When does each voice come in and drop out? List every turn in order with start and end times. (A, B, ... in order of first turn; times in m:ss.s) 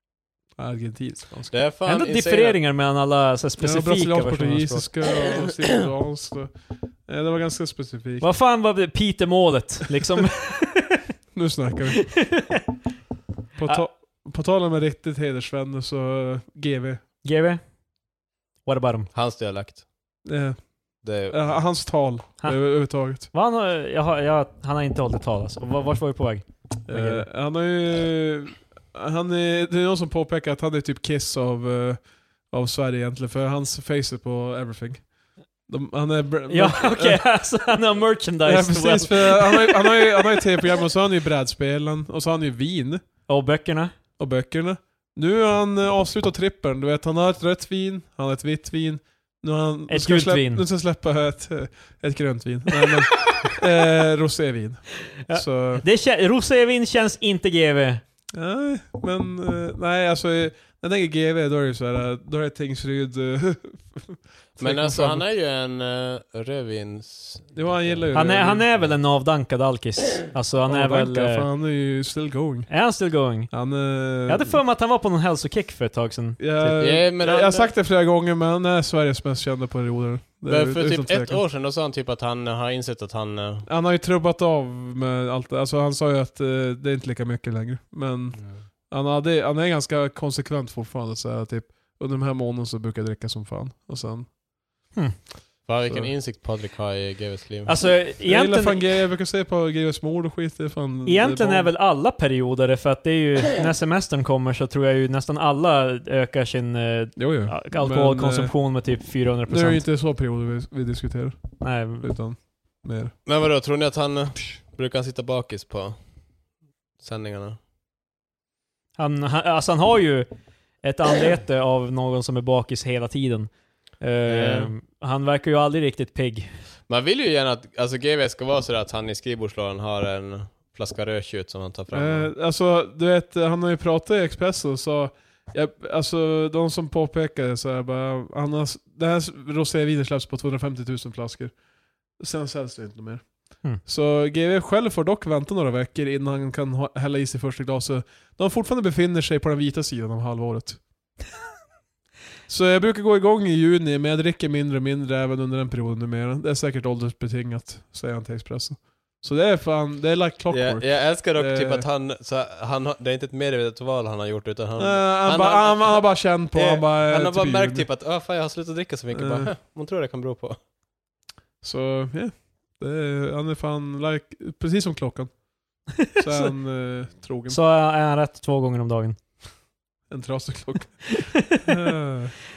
0:00.6-0:01.6 A
0:01.5-0:02.6 B
0:01.9-0:04.9 C
0:03.6-0:08.3 A
0:08.2-0:11.0 C
0:11.3-0:12.5 A
0:12.1-0:12.6 C
0:13.6-0:17.0 A
0:17.2-0:17.6 C
0:18.6-0:19.1 C
0:19.1-0:19.8 B
0:20.2-0:23.3 A
0:21.0-0:21.5 B
0:22.4-0:27.3 C
0:26.9-0:35.1 A
0:35.7-0:37.3 A
0:36.5-0:40.5 C
0:38.4-0:43.0 A
0:43.3-0:43.9 C
0:44.2-0:55.8 A
0:49.9-0:50.6 C
0:55.2-0:58.0 C
0:58.3-1:05.2 A
1:04.6-1:08.1 B
1:07.5-1:08.7 A
1:08.1-1:11.5 C
1:10.7-1:12.8 A
1:12.7-1:13.6 C
1:13.5-1:14.6 A
1:14.2-1:16.8 C
1:16.4-1:21.4 A
1:16.8-1:17.7 B
1:20.5-1:23.7 B
1:23.7-1:34.3 A
1:35.7-1:38.0 B
1:35.9-1:36.1 A
1:37.7-1:38.9 C
1:38.2-1:41.7 A
1:41.0-1:49.8 C
1:47.2-1:48.6 A
1:49.5-1:53.1 A
1:51.6-1:52.1 C
1:53.3-1:56.0 B
1:57.0-1:57.6 B
1:59.0-2:00.3 C
2:00.8-2:06.5 C
2:04.3-2:04.7 B
2:06.9-2:12.3 B
2:11.9-2:21.6 A
2:22.2-2:30.8 A
2:32.5-2:41.8 A
2:40.5-2:50.6 B
2:44.8-2:47.9 A
2:49.1-2:49.5 A
2:51.6-2:57.6 A
2:56.0-2:56.5 C
2:57.5-2:59.2 C
3:00.1-3:02.3 A
3:01.2-3:01.6 C